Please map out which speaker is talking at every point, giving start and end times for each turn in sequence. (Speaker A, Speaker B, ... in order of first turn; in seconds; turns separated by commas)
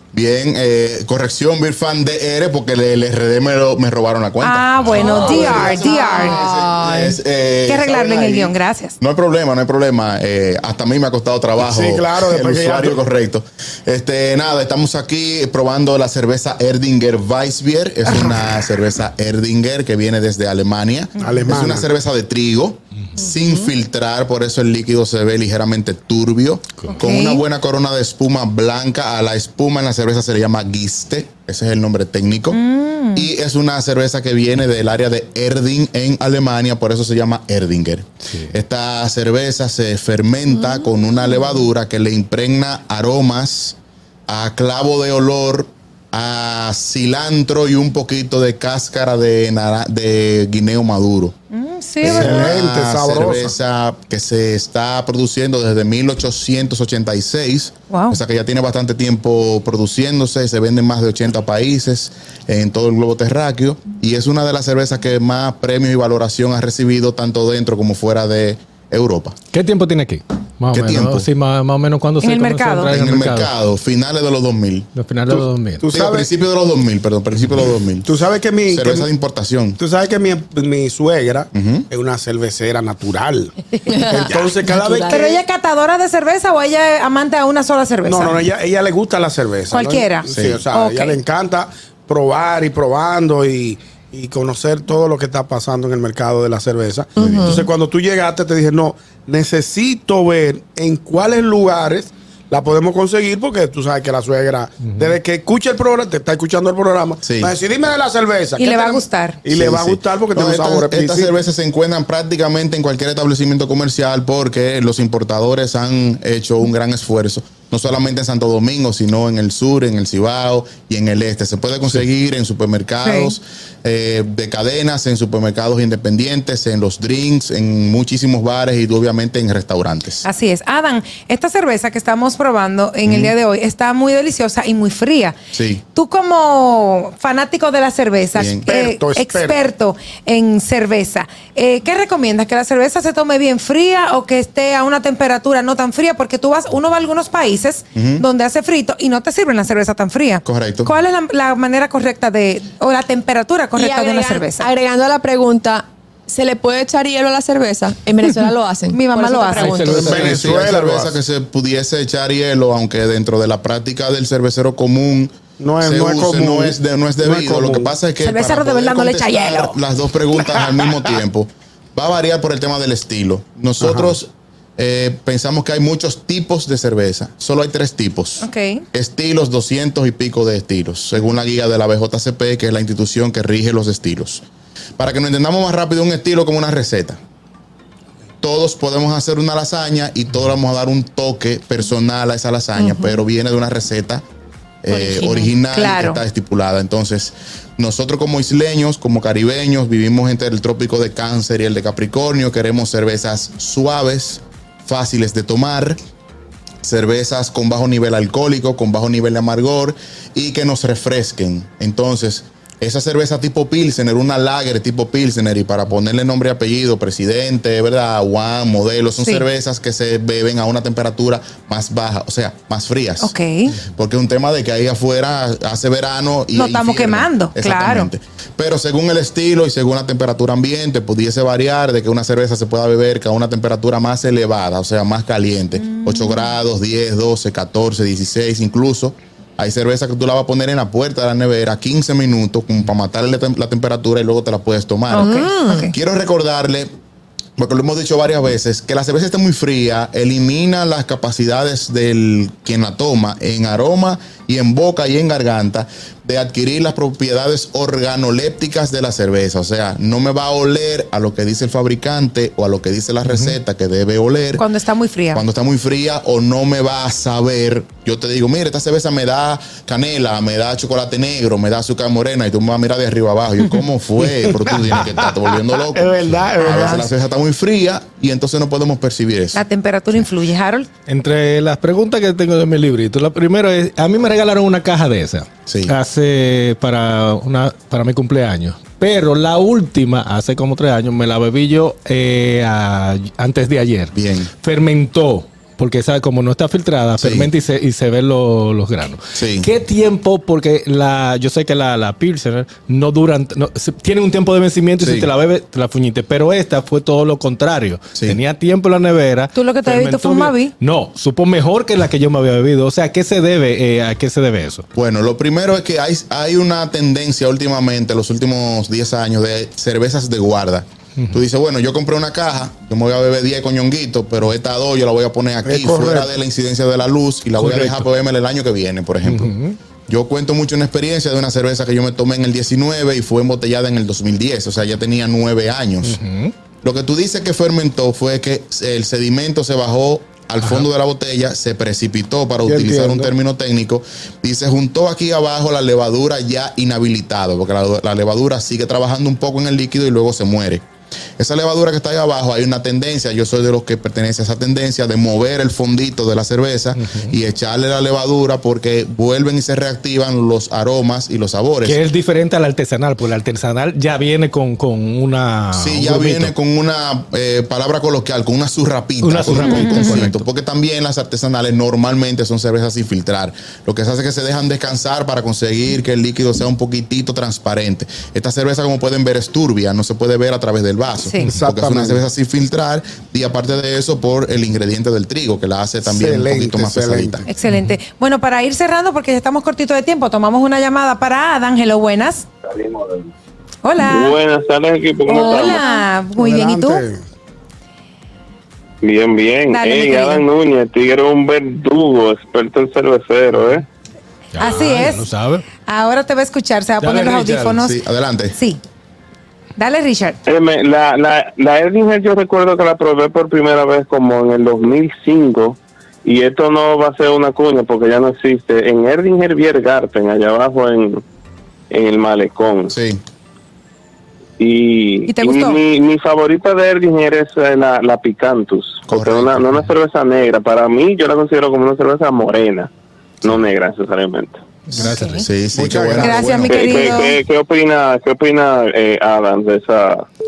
Speaker A: 0.1-32.6, Speaker B: 4.4-6.4, Speaker C: 6.4-7.0, Speaker B: 7.7-8.9, Speaker D: 11.6-13.0, Speaker D: 21.2-21.9, Speaker B: 27.0-27.4, Speaker B: 32.5-33.3, Speaker A: 33.1-43.8, Speaker A: 44.3-51.3, Speaker B: 51.5-52.5, Speaker A: 52.0-69.4, Speaker D: 52.0-53.5, Speaker B: 57.9-58.2, Speaker E: 69.5-73.5, Speaker A: 70.7-71.3, Speaker B: 72.2-72.9, Speaker A: 72.9-74.9, Speaker E: 74.9-75.9, Speaker D: 75.8-76.3, Speaker A: 75.9-78.1, Speaker D: 78.0-79.1, Speaker A: 78.7-79.8, Speaker D: 79.8-83.5, Speaker A: 81.5-81.9, Speaker C: 83.9-85.4, Speaker D: 84.0-85.2, Speaker A: 84.2-84.5, Speaker B: 85.1-88.4, Speaker D: 88.0-111.3, Speaker B: 89.7-91.2, Speaker A: 90.3-90.6, Speaker A: 97.2-97.6, Speaker C: 97.2-97.6, Speaker A: 107.2-107.5, Speaker B: 108.6-109.4, Speaker A: 109.5-130.2, Speaker B: 123.0-123.3, Speaker B: 130.2-135.4, Speaker A: 133.1-133.3, Speaker A: 135.5-135.8, Speaker B: 135.9-154.7, Speaker A: 138.3-138.7, Speaker D: 138.7-139.6, Speaker A: 147.9-148.2, Speaker A: 150.4-150.9, Speaker C: 153.8-160.3, Speaker B: 158.2-160.2, Speaker E: 159.6-160.5, Speaker D: 159.8-161.2, Speaker A: 160.1-184.4, Speaker D: 165.6-167.9, Speaker B: 168.2-169.8, Speaker D: 173.8-174.1, Speaker B: 178.4-178.8, Speaker A: 185.0-187.2, Speaker A: 188.4-194.2, Speaker C: 192.8-193.2, Speaker A: 194.8-206.0, Speaker C: 194.9-195.5, Speaker B: 195.7-196.2, Speaker A: 206.8-246.9, Speaker B: 219.2-219.5, Speaker B: 223.2-223.8, Speaker B: 226.5-228.1, Speaker B: 235.9-236.4, Speaker B: 245.1-245.9, Speaker C: 245.2-245.9, Speaker A: 247.6-264.6, Speaker E: 263.3-263.6, Speaker B: 264.6-265.4, Speaker A: 265.3-280.3, Speaker D: 274.2-277.0, Speaker B: 276.6-277.1, Speaker B: 279.5-280.9, Speaker E: 281.1-314.8, Speaker A: 285.7-285.9, Speaker A: 294.1-294.5, Speaker A: 297.2-297.5, Speaker A: 299.4-299.7, Speaker A: 305.0-305.3, Speaker B: 309.5-310.7, Speaker A: 314.9-329.5, Speaker D: 325.6-326.3, Speaker E: 327.6-328.1, Speaker E: 329.2-329.8, Speaker A: 330.1-336.2, Speaker E: 336.0-336.5, Speaker A: 336.8-350.8, Speaker E: 340.6-340.9, Speaker D: 342.6-343.3, Speaker A: 351.4-362.0, Speaker E: 356.9-357.4, Speaker E: 361.8-366.5, Speaker A: 365.7-387.5, Speaker E: 369.2-370.5, Speaker B: 369.6-370.3, Speaker B: 381.2-381.5, Speaker D: 381.4-382.2, Speaker D: 386.0-387.5, Speaker B: 387.5-392.5, Speaker F: 392.7-393.3, Speaker B: 393.8-394.4, Speaker F: 394.0-396.0, Speaker B: 395.3-397.0, Speaker D: 396.4-397.2, Speaker F: 399.0-403.9, Speaker B: 399.7-400.4, Speaker E: 404.5-405.7, Speaker B: 404.6-405.3, Speaker B: 405.9-408.0, Speaker E: 407.0-407.8, Speaker A: 407.8-408.6, Speaker B: 408.5-408.8, Speaker B: 409.8-410.4, Speaker F: 410.4-421.2, Speaker F: 421.9-423.0, Speaker A: 422.9-423.2, Speaker F: 424.6-432.9, Speaker B: 425.3-425.8, Speaker A: 429.1-429.6, Speaker F: 433.4-434.6, Speaker E: 434.9-435.5, Speaker B: 434.9-435.4, Speaker A: 435.4-437.1, Speaker D: 435.7-436.6, Speaker B: 436.2-437.4, Speaker F: 436.7-440.2